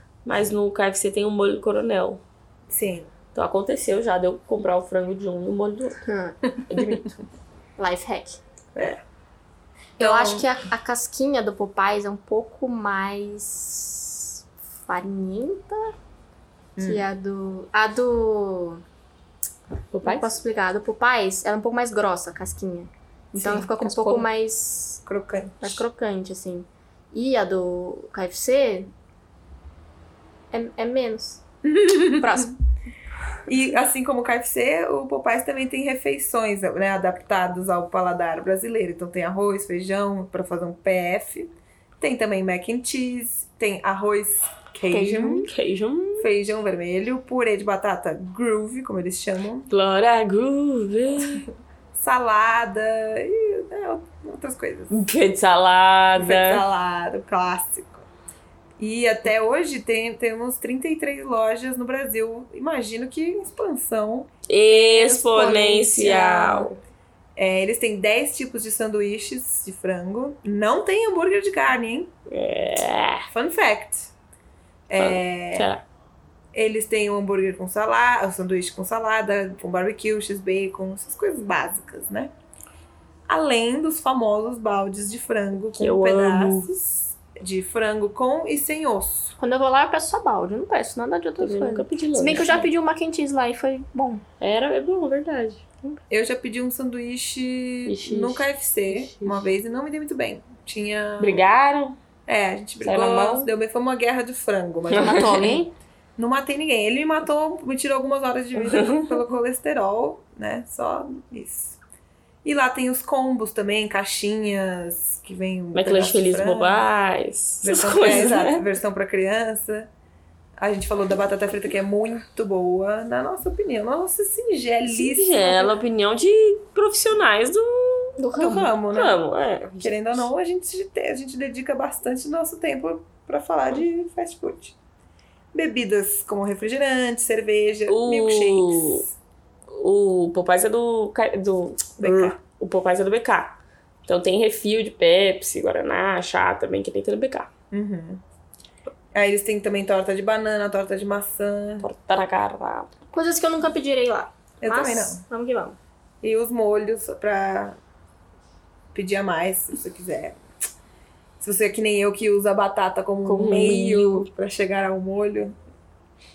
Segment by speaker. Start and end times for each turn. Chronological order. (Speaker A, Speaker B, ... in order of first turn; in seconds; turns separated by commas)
Speaker A: 0.2-2.2, Speaker B: 2.7-3.1, Speaker A: 3.3-6.0, Speaker C: 6.0-6.4, Speaker A: 6.7-7.1, Speaker C: 7.8-8.4, Speaker B: 8.8-9.0, Speaker C: 10.0-15.9, Speaker B: 10.0-10.5, Speaker B: 16.8-17.0, Speaker C: 16.8-18.8, Speaker A: 19.9-20.3, Speaker C: 20.0-25.0, Speaker B: 23.3-24.2, Speaker B: 25.1-25.8, Speaker C: 25.6-28.9, Speaker C: 30.5-31.4, Speaker B: 31.6-32.5, Speaker C: 32.2-32.5, Speaker B: 33.5-45.5, Speaker C: 44.9-45.5, Speaker A: 45.4-46.3, Speaker B: 46.2-49.7, Speaker A: 49.7-51.5, Speaker B: 51.9-54.9, Speaker A: 54.9-56.6, Speaker B: 56.1-58.0, Speaker B: 58.8-66.7, Speaker A: 64.5-66.7, Speaker B: 67.3-72.1, Speaker A: 72.3-73.3, Speaker B: 73.3-74.1, Speaker B: 74.9-75.7, Speaker A: 75.0-75.8, Speaker B: 76.5-82.3, Speaker B: 83.3-89.3, Speaker A: 85.8-86.8, Speaker C: 89.4-94.2, Speaker A: 91.4-92.7, Speaker A: 94.4-96.0, Speaker B: 96.1-101.4, Speaker A: 97.9-99.4, Speaker A: 101.2-102.0, Speaker B: 102.3-105.5, Speaker A: 102.8-103.5, Speaker A: 104.9-105.5, Speaker C: 104.9-105.7, Speaker B: 106.2-111.8, Speaker A: 108.6-109.2, Speaker B: 112.4-116.8, Speaker A: 115.7-118.7, Speaker B: 117.6-119.9, Speaker B: 120.6-125.7, Speaker A: 124.9-128.2, Speaker C: 128.2-128.7, Speaker B: 128.3-134.8, Speaker A: 128.8-130.2, Speaker B: 135.5-139.1, Speaker A: 137.9-139.0, Speaker A: 139.7-147.5, Speaker B: 142.0-142.4, Speaker B: 147.7-148.2, Speaker B: 149.1-151.8, Speaker A: 151.8-152.9, Speaker C: 153.1-155.8, Speaker B: 154.6-155.2, Speaker B: 156.2-157.8, Speaker B: 158.9-160.4, Speaker B: 161.4-165.5, Speaker A: 163.2-164.2